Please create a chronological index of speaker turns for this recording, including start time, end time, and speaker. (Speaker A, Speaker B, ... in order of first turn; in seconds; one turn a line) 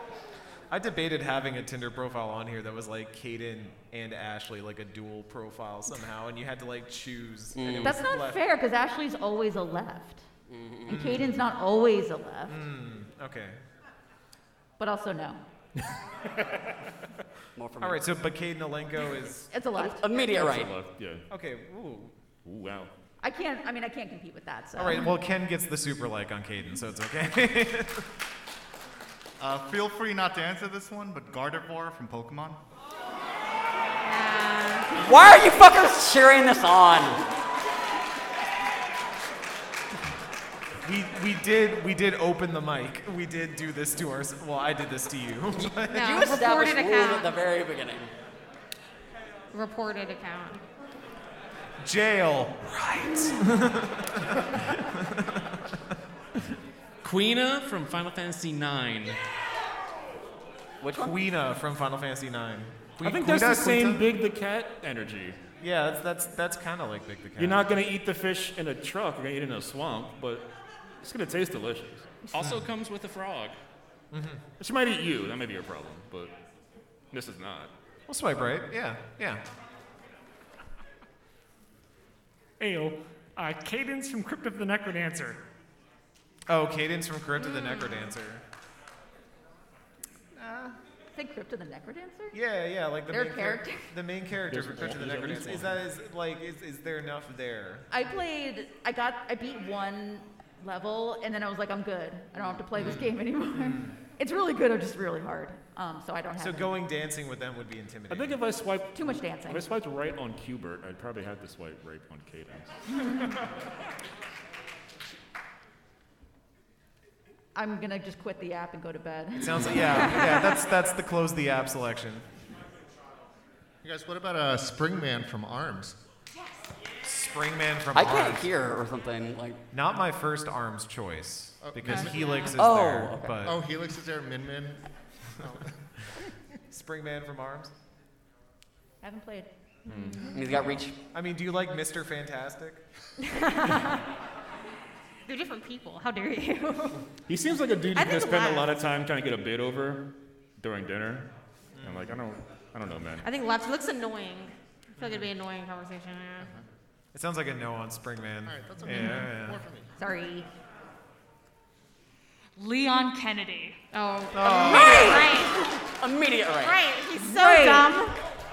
Speaker A: 0.7-8.4
Speaker B: 7.5-8.0
Speaker C: 7.8-10.3
Speaker B: 10.5-11.2
Speaker C: 10.9-12.6
Speaker A: 10.9-11.4
Speaker A: 12.5-13.6
Speaker C: 14.8-15.4
Speaker B: 17.6-18.1
Speaker A: 17.8-19.5
Speaker C: 19.5-20.0
Speaker B: 19.8-20.7
Speaker D: 20.1-21.2
Speaker A: 21.3-22.1
Speaker D: 22.4-22.9
Speaker C: 23.2-25.1
Speaker A: 24.8-28.1
Speaker E: 29.4-32.6
Speaker F: 34.0-34.9
Speaker B: 34.9-37.2
Speaker A: 40.8-46.3
Speaker B: 45.6-48.1
Speaker F: 45.9-47.3
Speaker F: 49.5-50.6
Speaker A: 51.8-55.5
Speaker G: 57.0-59.2
Speaker B: 60.8-61.1
Speaker A: 60.9-64.1
Speaker D: 63.0-65.4
Speaker A: 65.6-67.6
Speaker D: 67.4-70.5
Speaker D: 71.0-72.7
Speaker G: 72.3-73.5
Speaker A: 74.1-74.4
Speaker D: 74.6-76.3
Speaker D: 77.1-77.7
Speaker A: 78.1-79.4
Speaker H: 82.6-85.4
Speaker A: 86.5-88.4
Speaker F: 87.4-88.1
Speaker A: 90.3-90.8
Speaker C: 91.1-92.4
Speaker A: 92.3-97.9
Speaker C: 93.1-93.9
Speaker D: 94.5-95.8
Speaker C: 97.9-106.7
Speaker A: 102.7-104.0
Speaker A: 106.4-108.4
Speaker D: 108.1-112.7
Speaker C: 108.9-109.6
Speaker C: 117.5-120.1
Speaker A: 119.4-122.3
Speaker F: 120.0-120.5
Speaker E: 123.8-126.0
Speaker A: 127.0-128.5
Speaker B: 127.9-129.6
Speaker A: 129.7-133.6
Speaker E: 131.6-132.1
Speaker F: 131.8-132.5
Speaker B: 132.5-133.4
Speaker E: 133.4-134.8
Speaker A: 136.7-137.7
Speaker C: 139.0-139.5
Speaker D: 139.9-140.2
Speaker F: 139.9-140.7
Speaker B: 140.3-140.9
Speaker A: 141.1-142.8
Speaker F: 143.3-144.0
Speaker F: 145.3-147.0
Speaker D: 147.3-150.1
Speaker F: 147.9-148.7
Speaker D: 150.6-151.3
Speaker A: 151.7-152.2
Speaker D: 151.8-153.3
Speaker F: 153.2-156.5
Speaker A: 155.0-155.3
Speaker A: 157.1-159.6
Speaker E: 158.4-159.9
Speaker C: 160.0-160.4
Speaker H: 162.6-163.8
Speaker F: 163.9-165.6
Speaker A: 164.3-165.3
Speaker B: 164.7-165.2
Speaker C: 164.7-165.6
Speaker B: 166.0-166.8
Speaker F: 166.6-168.2
Speaker C: 167.2-167.9